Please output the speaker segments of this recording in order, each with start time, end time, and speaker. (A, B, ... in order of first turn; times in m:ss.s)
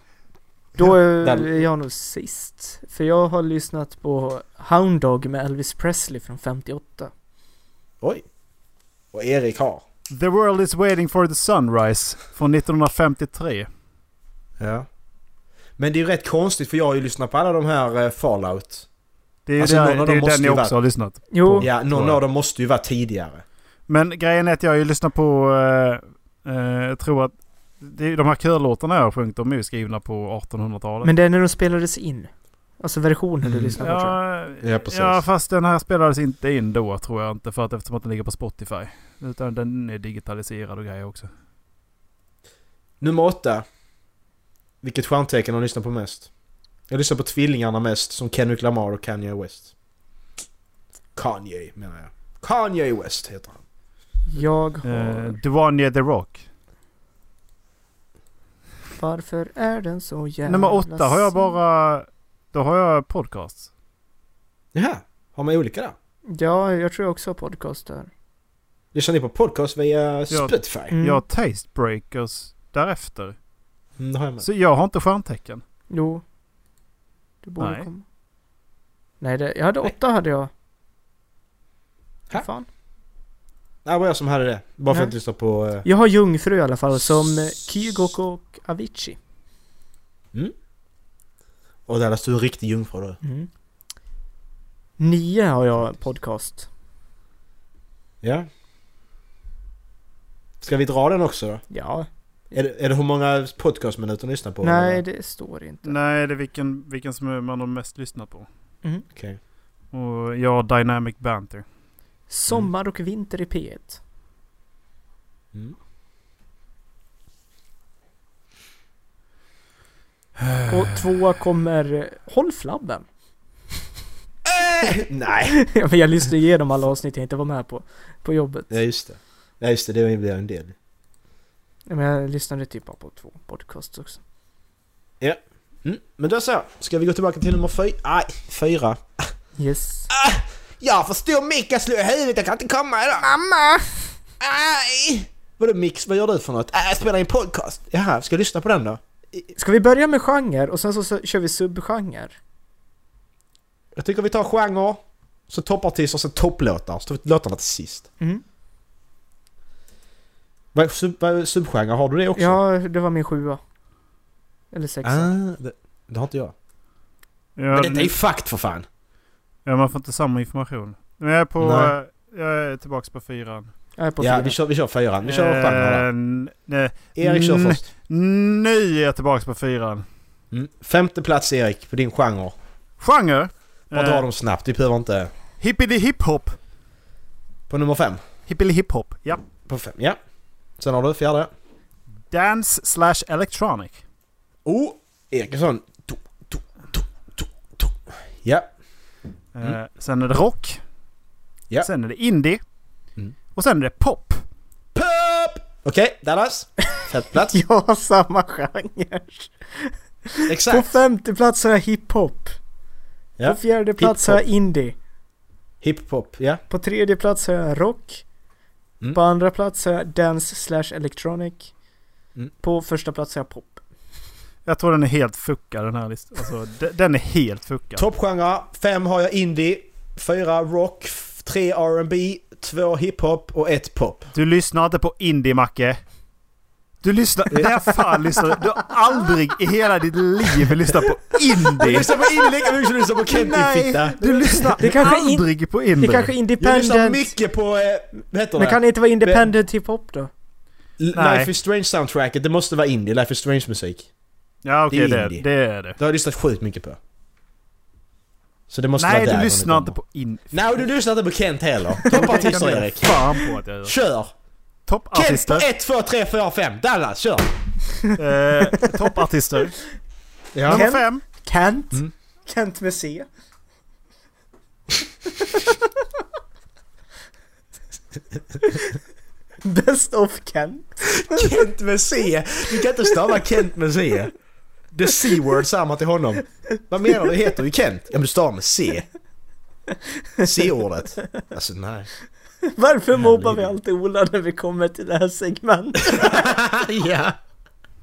0:00.8-0:07.1 A
0:01.2-0:01.5 B
0:09.1-0:09.8 B
0:10.1-0:13.7 C
0:14.6-0:14.9 B
0:15.8-0:18.8 B
0:19.4-0:22.2 C
0:19.6-0:20.7 B
0:21.3-0:21.7 A
0:21.6-0:23.4 B
0:23.9-0:31.1 C
0:31.0-0:34.2 A
0:33.4-0:33.8 B
0:33.8-0:41.3 C
0:34.6-0:35.2 B
0:43.0-0:43.6 B
0:44.8-0:46.3 B
0:46.9-0:49.7 B
0:51.2-0:53.6 B
0:54.3-0:55.4 A
0:54.8-0:56.4 C
0:58.9-1:01.6 A
1:00.4-1:03.7 C
1:04.7-1:06.0 B
1:06.3-1:08.1 A
1:08.9-1:10.9 B
1:10.3-1:13.4 C
1:10.9-1:11.2 A
1:14.0-1:14.4 B
1:14.4-1:15.6 C
1:15.9-1:16.2 A
1:17.4-1:18.0 A
1:17.6-1:17.9 C
1:19.2-1:20.5 A
1:22.3-1:22.7 A
1:23.8-1:25.8 B
1:25.8-1:29.2 A
1:31.9-1:33.2 B
1:33.2-1:33.5 A
1:35.0-1:36.7 A
1:38.2-1:38.5 B
1:40.6-1:41.6 B
1:41.7-1:42.1 A
1:42.5-1:45.0 B
1:44.6-1:45.9 A
1:45.8-1:48.5 C
1:49.9-1:51.6 C
1:52.3-1:54.0 A
2:00.4-2:00.7 C
2:00.7-2:03.0 A
2:04.4-2:05.6 B
2:05.5-2:08.7 A
2:08.7-2:10.7 B
2:11.9-2:14.2 A
2:15.2-2:19.3 B
2:19.6-2:20.1 A
2:20.1-2:23.8 B
2:24.4-2:29.5 B
2:29.6-2:32.4 A
2:33.9-2:38.1 B
2:40.7-2:42.6 B
2:42.4-2:43.6 A
2:44.7-2:45.3 A
2:45.0-2:46.5 B
2:47.6-2:48.1 C
2:47.7-2:48.8 B
2:49.6-2:53.7 C
2:51.6-2:51.9 B
2:54.0-2:54.6 A
2:54.2-2:56.0 B
2:55.2-3:00.0 C
2:57.2-2:57.8 B
3:00.5-3:02.5 B
3:03.0-3:04.2 C
3:03.9-3:05.3 B
3:05.6-3:06.6 C
3:07.7-3:08.2 B
3:08.5-3:09.4 C
3:09.6-3:10.2 B
3:10.8-3:11.5 B
3:12.3-3:14.0 C
3:14.6-3:18.7 B
3:19.5-3:20.8 C
3:21.8-3:22.6 C
3:23.5-3:24.4 C
3:24.9-3:27.6 B
3:27.4-3:32.6 A
3:30.5-3:30.9 B
3:33.4-3:34.4 B
3:33.4-3:35.0 A
3:35.8-3:36.6 B
3:36.7-3:38.2 A
3:39.1-3:41.7 A
3:42.6-3:43.8 A
3:44.6-3:48.0 C
3:48.0-3:54.3 B
3:54.3-3:56.0 C
3:57.0-4:02.1 C
4:01.8-4:04.9 B
4:03.3-4:06.3 C
4:04.4-4:05.5 A
4:06.0-4:07.3 A
4:06.6-4:09.5 B
4:08.5-4:10.3 A
4:11.0-4:14.1 B
4:11.1-4:11.5 C
4:14.6-4:16.0 C
4:14.9-4:15.4 B
4:16.0-4:17.0 B
4:18.7-4:19.9 B
4:19.0-4:20.7 C
4:20.5-4:23.2 B
4:22.0-4:23.9 C
4:23.8-4:24.3 B
4:24.9-4:25.6 C
4:25.1-4:27.5 B
4:28.2-4:29.8 C
4:30.5-4:30.8 B
4:30.6-4:31.2 C
4:30.7-4:33.3 A
4:35.4-4:35.9 A
4:38.6-4:39.0 A
4:39.6-4:41.6 A
4:41.1-4:44.3 B
4:44.9-4:49.1 B
4:50.4-4:52.1 B
4:52.6-4:56.6 A
4:53.2-4:53.7 B
4:56.1-4:57.4 B